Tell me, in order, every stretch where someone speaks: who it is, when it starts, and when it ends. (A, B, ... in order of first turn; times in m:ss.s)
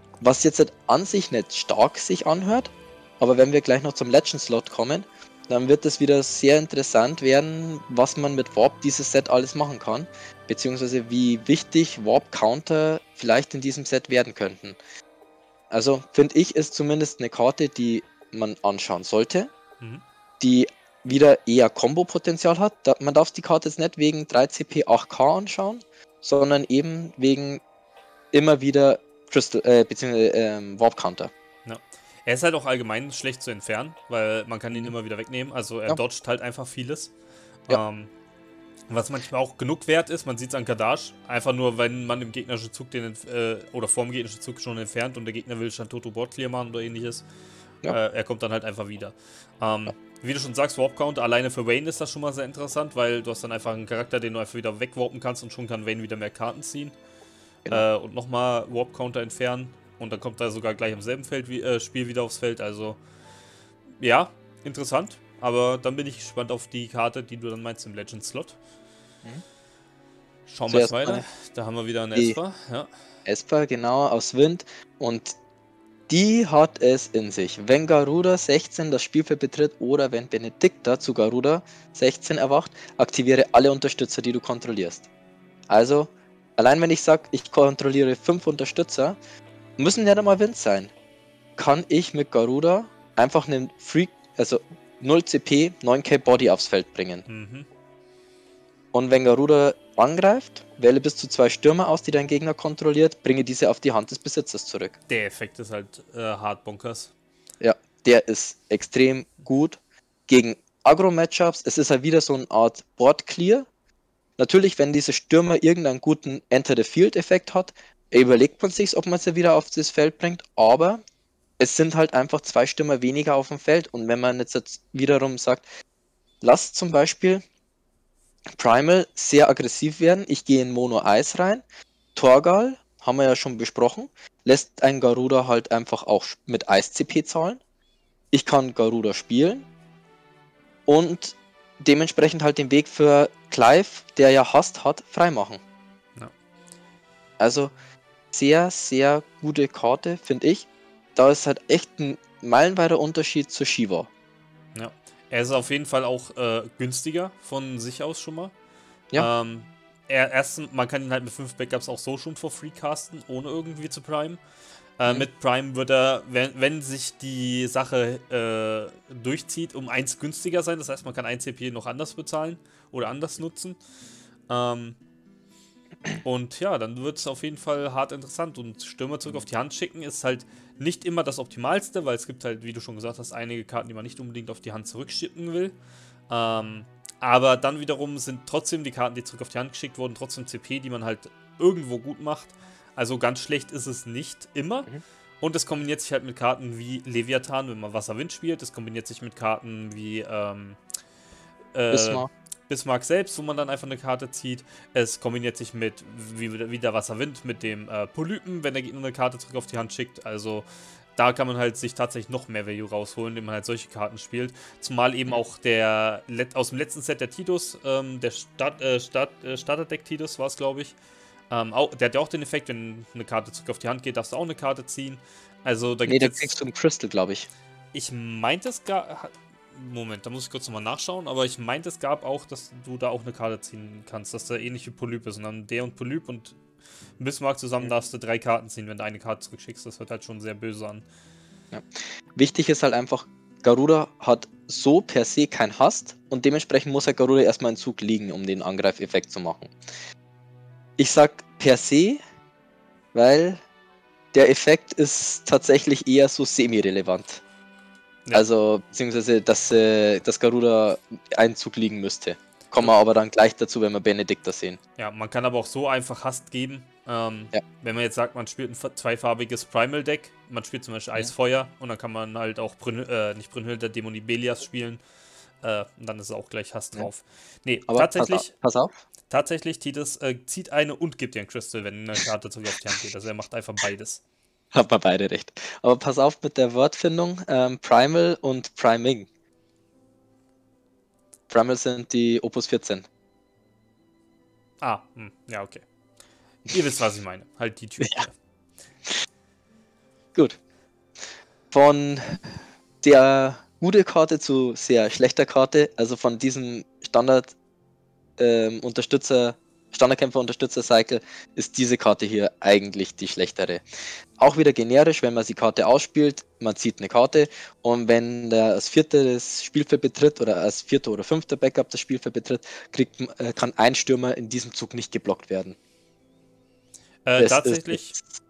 0:00.2-0:14.8 A
0:15.7-0:19.5 A
0:20.4-0:27.6 A
0:28.3-0:31.3 A
0:31.6-0:37.1 B
0:37.7-0:38.1 B
0:38.9-0:47.2 B
0:47.9-0:57.0 B
0:57.7-1:03.0 B
1:04.0-1:08.6 B
1:10.5-1:12.9 B
1:10.7-1:11.2 A
1:13.3-1:15.4 A
1:16.1-1:25.1 A
1:25.7-1:29.2 A
1:29.8-1:30.9 A
1:31.6-1:37.3 A
1:37.3-1:37.7 B
1:38.9-1:45.0 A
1:45.1-1:47.1 B
1:47.6-1:53.7 A
1:54.4-2:01.0 A
2:01.6-2:05.6 A
2:06.4-2:07.4 A
2:08.6-2:11.6 A
2:12.2-2:17.6 A
2:18.3-2:19.7 A
2:20.9-2:25.6 A
2:27.4-2:27.7 A
2:28.3-2:34.1 A
2:34.8-2:38.5 B
2:39.2-2:44.4 B
2:45.0-2:53.8 B
2:54.5-2:55.0 B
2:56.2-3:05.8 B
3:06.3-3:14.9 B
3:15.4-3:20.8 B
3:21.7-3:30.6 B
3:21.9-3:22.3 A
3:31.2-3:41.0 B
3:41.5-3:46.6 B
3:46.1-3:47.5 A
3:47.9-3:56.6 B
3:57.2-4:01.0 B
4:01.7-4:09.7 A
4:11.0-4:12.2 A
4:13.1-4:13.6 A
4:14.3-4:17.4 A
4:18.3-4:24.8 A
4:25.0-4:35.0 B
4:35.6-4:38.5 B
4:37.9-4:39.0 A
4:39.3-4:44.2 B
4:44.7-4:49.3 A
4:51.5-4:53.1 A
4:54.8-4:55.8 B
4:56.7-4:58.3 B
4:58.0-4:58.3 A
5:01.7-5:02.4 A
5:03.0-5:07.6 A
5:08.4-5:13.8 A
5:14.4-5:25.8 A
5:27.2-5:28.2 B
5:27.4-5:28.2 A